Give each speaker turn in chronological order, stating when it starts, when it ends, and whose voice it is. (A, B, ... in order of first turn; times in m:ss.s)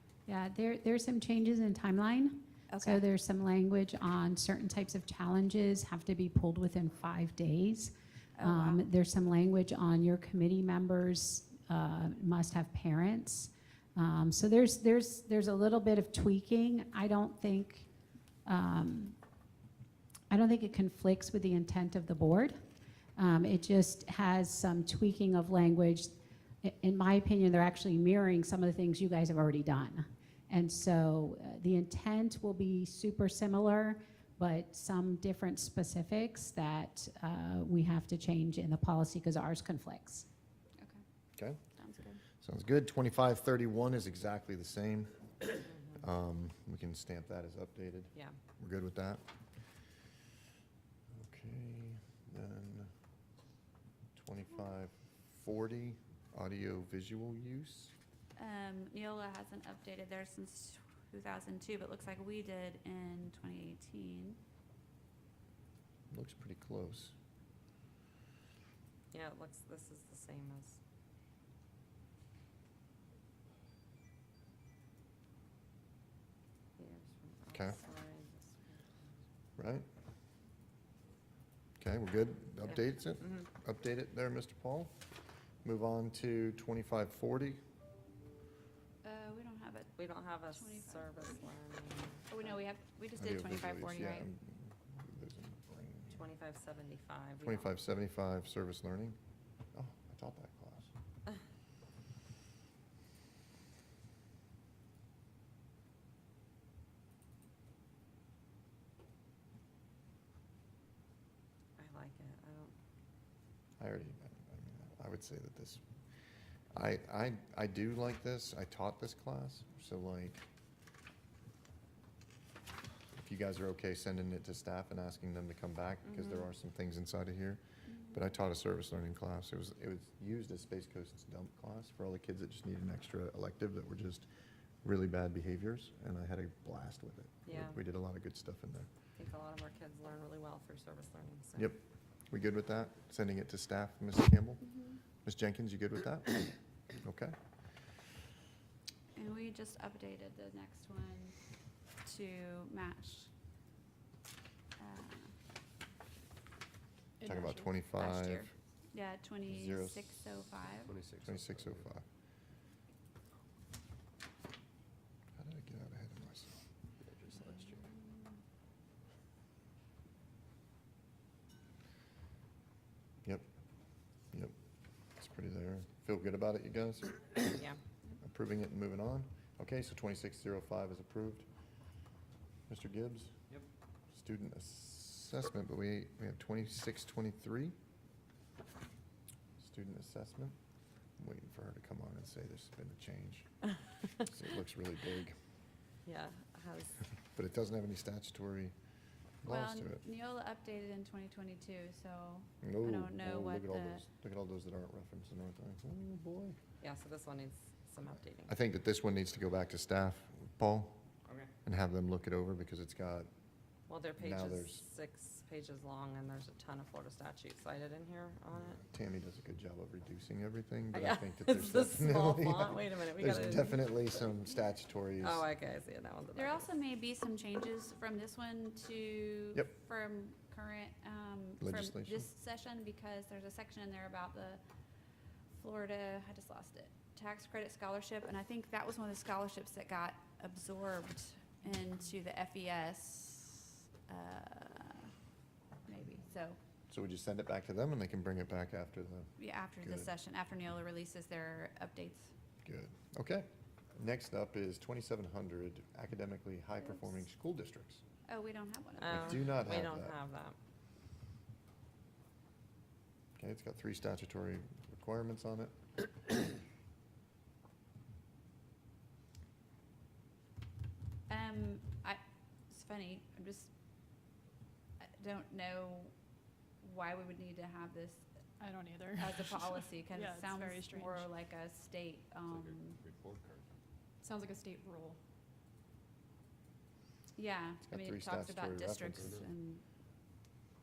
0:00.3-0:17.9 A
0:02.7-0:03.0 B
0:08.4-0:08.8 B
0:18.4-0:19.2 A
0:20.3-0:22.6 A
0:23.2-0:40.3 A
0:41.4-0:41.6 C
0:41.8-0:42.2 B
0:42.4-0:49.2 C
0:45.7-0:46.1 D
0:51.2-0:52.9 C
0:54.2-0:57.9 C
0:58.4-1:04.4 B
1:06.1-1:07.1 C
1:09.1-1:10.8 D
1:16.8-1:19.0 D
1:17.5-1:17.8 C
1:19.6-1:19.8 C
1:21.8-1:24.9 C
1:22.6-1:23.4 D
1:25.6-1:27.6 C
1:29.0-1:31.2 B
1:30.0-1:32.3 D
1:32.3-1:34.3 B
1:33.2-1:36.2 C
1:36.1-1:37.7 D
1:37.4-1:39.2 C
1:39.7-1:40.9 C
1:51.8-1:52.7 D
1:53.8-1:55.8 C
1:56.7-2:00.4 C
2:03.2-2:14.3 C
2:06.1-2:06.5 D
2:14.8-2:18.9 C
2:17.4-2:17.8 D
2:19.2-2:21.7 D
2:22.3-2:24.7 C
2:24.7-2:25.0 B
2:25.2-2:26.5 C
2:27.0-2:27.3 C
2:29.2-2:31.4 B
2:32.0-2:33.3 B
2:34.8-2:35.3 B
2:37.2-2:37.8 E
2:37.2-2:38.5 C
2:37.9-2:40.9 B
2:39.5-2:40.1 C
2:40.8-2:41.9 F
2:41.2-2:42.0 C
2:45.4-2:46.5 C
2:47.0-2:48.0 F
2:55.2-2:57.6 C
2:57.5-2:57.8 D
2:58.2-3:01.5 C
3:02.7-3:03.3 C
3:04.1-3:07.7 C
3:09.6-3:10.6 C
3:11.2-3:13.5 C
3:14.2-3:15.4 C
3:16.0-3:17.0 D
3:17.3-3:18.7 C
3:19.4-3:20.0 C
3:19.4-3:24.0 B
3:22.6-3:26.6 C
3:26.8-3:28.5 D
3:28.5-3:31.0 C
3:31.6-3:33.3 C
3:33.9-3:38.8 D
3:34.2-3:34.8 C
3:38.8-3:45.4 C
3:40.9-3:44.3 D
3:45.2-3:46.7 D
3:46.3-3:54.6 B
3:51.6-3:52.3 C
3:55.5-4:05.1 B
4:05.9-4:06.6 B
4:06.9-4:10.1 C
4:09.4-4:12.3 B
4:12.6-4:18.0 C
4:16.8-4:17.1 B
4:18.3-4:19.4 B
4:19.0-4:20.6 D
4:19.1-4:20.2 C
4:23.4-4:25.7 C
4:31.3-4:32.2 B
4:32.7-4:33.7 B
4:35.0-4:36.1 B
4:36.8-4:38.3 B
4:38.6-4:41.4 E
4:39.2-4:43.0 B
4:42.4-4:43.7 F
4:44.2-4:45.2 E
4:47.4-4:49.8 B
4:47.8-4:49.5 C
4:49.2-4:49.5 F